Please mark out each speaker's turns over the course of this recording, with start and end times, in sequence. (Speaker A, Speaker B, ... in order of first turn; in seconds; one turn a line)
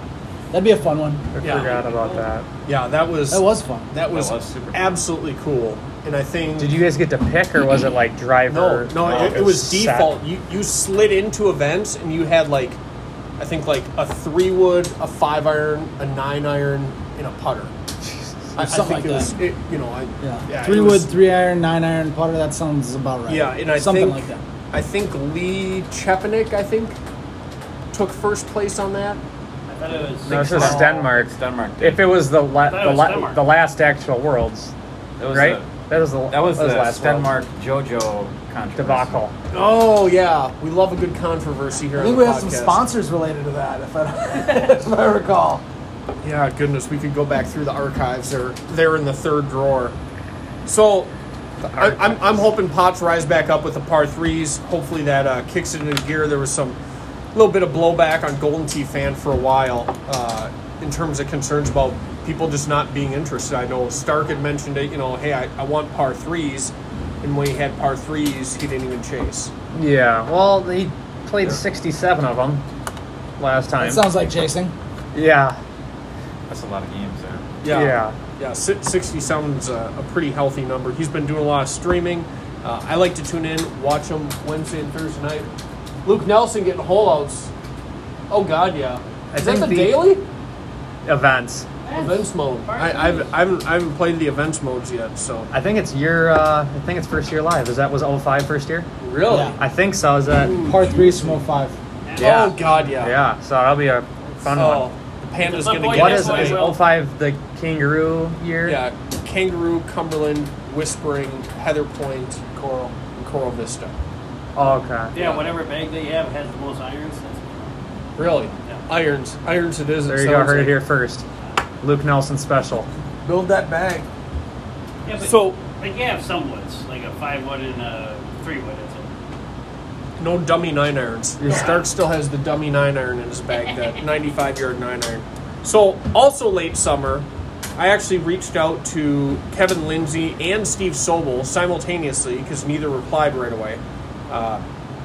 Speaker A: 0.5-1.3
Speaker B: 1.3-2.4
Speaker C: 1.4-1.7
Speaker D: 1.4-2.3
Speaker C: 2.6-6.8
Speaker A: 3.3-3.9
Speaker E: 4.1-5.0
Speaker B: 6.6-10.1
Speaker C: 8.5-12.8
Speaker C: 13.4-17.7
Speaker C: 18.6-21.1
Speaker A: 18.6-19.4
Speaker A: 20.2-24.4
Speaker C: 23.3-27.0
Speaker C: 27.9-29.2
Speaker D: 29.7-30.8
Speaker C: 30.2-30.9
Speaker B: 30.3-34.7
Speaker E: 30.3-32.1
Speaker D: 32.6-33.4
Speaker E: 35.2-39.2
Speaker B: 35.3-37.3
Speaker B: 38.8-39.3
Speaker C: 39.5-42.8
Speaker A: 42.0-45.6
Speaker C: 46.2-49.9
Speaker C: 50.6-51.1
Speaker C: 51.6-56.8
Speaker B: 51.7-52.3
Speaker C: 57.3-69.5
Speaker B: 69.7-72.6
Speaker B: 73.4-74.0
Speaker A: 73.8-74.7
Speaker B: 75.1-75.6
Speaker E: 76.5-77.6
Speaker C: 77.6-85.5
Speaker B: 77.7-78.1
Speaker C: 86.0-87.5
Speaker C: 88.3-90.2
Speaker B: 89.3-90.0
Speaker B: 91.0-91.7
Speaker D: 91.8-93.3
Speaker C: 91.9-95.5
Speaker B: 95.5-98.9
Speaker C: 99.0-99.6
Speaker A: 99.3-99.6
Speaker B: 99.6-100.7
Speaker C: 100.3-101.0
Speaker A: 100.6-101.8
Speaker D: 102.0-102.6
Speaker C: 102.2-103.2
Speaker E: 102.2-102.5
Speaker B: 103.0-104.9
Speaker C: 104.5-106.6
Speaker D: 105.4-106.8
Speaker B: 105.8-108.8
Speaker C: 108.6-113.9
Speaker B: 114.5-115.1
Speaker D: 115.1-117.7
Speaker C: 115.2-115.5
Speaker C: 118.2-120.8
Speaker B: 120.1-121.2
Speaker B: 121.8-122.9
Speaker A: 123.3-124.0
Speaker D: 125.0-129.1
Speaker C: 125.2-125.6
Speaker C: 130.2-137.2
Speaker B: 131.4-131.7
Speaker C: 137.8-144.6